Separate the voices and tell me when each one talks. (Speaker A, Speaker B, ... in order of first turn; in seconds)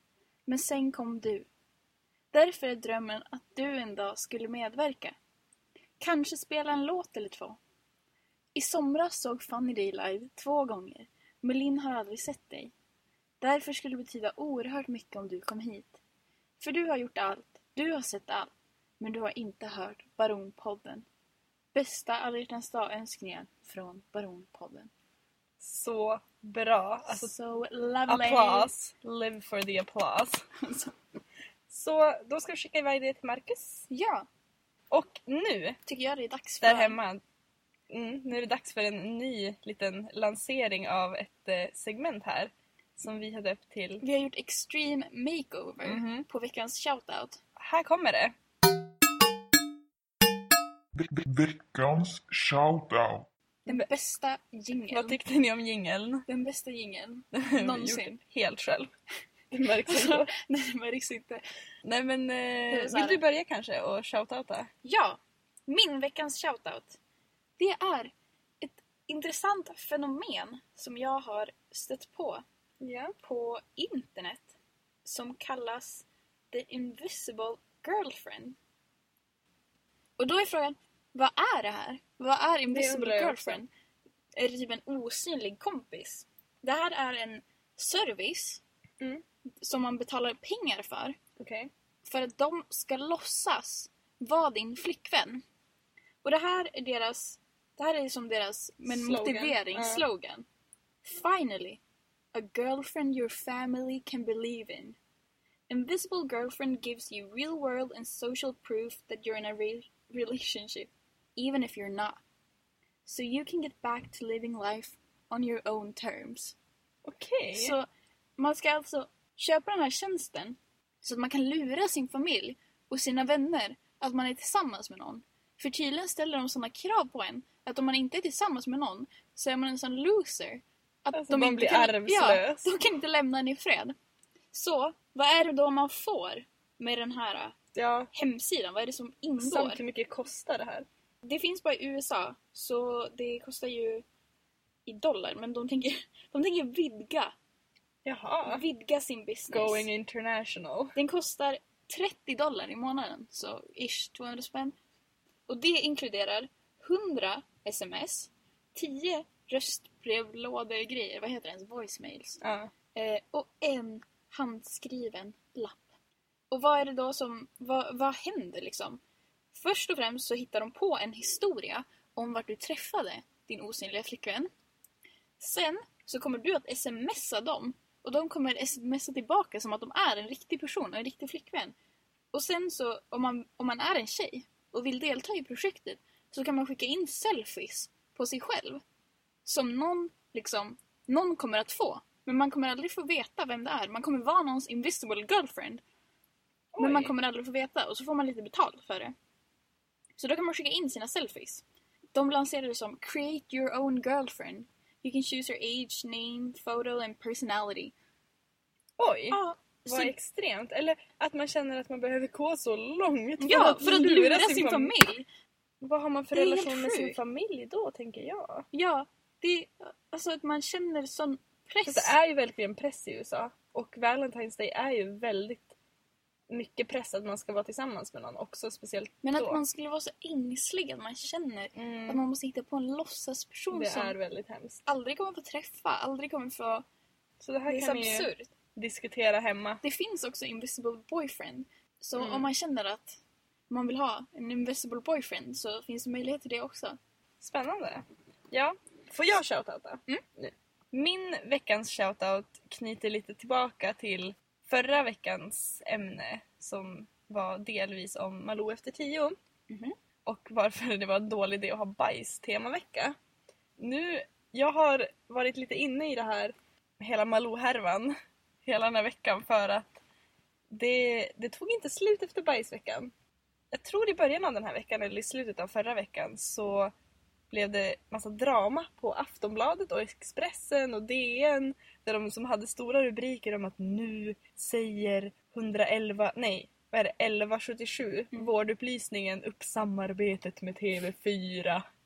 Speaker A: 0.5-1.5, 2.3-5.2, 6.0-7.6, 8.5-12.7, 13.4-16.0, 16.6-21.0, 21.7-24.9, 27.1-28.7, 30.6-30.9, 33.9-34.2, 35.9-37.0, 44.0-47.4, 53.7-55.2, 56.3-58.2, 59.9-61.4, 62.7-63.2, 64.8-67.0, 67.6-72.4, 73.2-74.5, 75.0-78.6, 80.2-83.7, 84.4-88.6, 89.6-91.2, 92.0-95.4, 96.2-100.5, 101.0-101.8, 102.3-105.0, 105.7-112.2, 113.0-116.5, 117.5-117.9, 118.4-133.9, 134.5-137.6, 138.1-139.8, 141.2-144.0, 144.9-147.3, 148.4-149.9, 150.9-154.8, 155.5-162.4, 162.9-165.8, 166.5-169.0, 169.5-174.5, 175.4-181.8, 182.3-188.8, 189.4-195.8, 196.8-199.1, 200.2-207.9, 209.3-210.1, 213.4-215.3, 216.3-217.2, 218.7-222.1, 229.2-234.2, 234.9-236.8, 237.7-238.5, 239.8-247.0, 259.7-259.9
Speaker B: 25.6-27.3, 28.1-30.4, 31.7-33.9, 34.9-35.8, 36.6-37.2, 37.9-44.0, 45.8-46.3, 47.6-48.3, 54.9-56.2, 57.3-58.9, 59.5-60.3, 61.8-64.7, 72.8-73.1, 82.7-83.6, 91.4-91.7, 98.8-100.0, 117.0-117.8, 131.1-132.7, 137.7-138.1, 139.4-140.9, 148.0-148.6, 149.5-150.9, 162.4-162.7, 196.7-197.1, 209.0-214.9, 215.8-218.7, 221.9-225.7, 226.5-229.6, 231.8-232.2, 233.7-234.8, 237.4-239.8, 242.2-242.5, 247.4-259.4, 260.2-263.1, 263.8-268.1, 268.6-270.0, 270.7-273.1, 273.7-276.9, 277.5-291.8
Speaker C: 51.0-53.3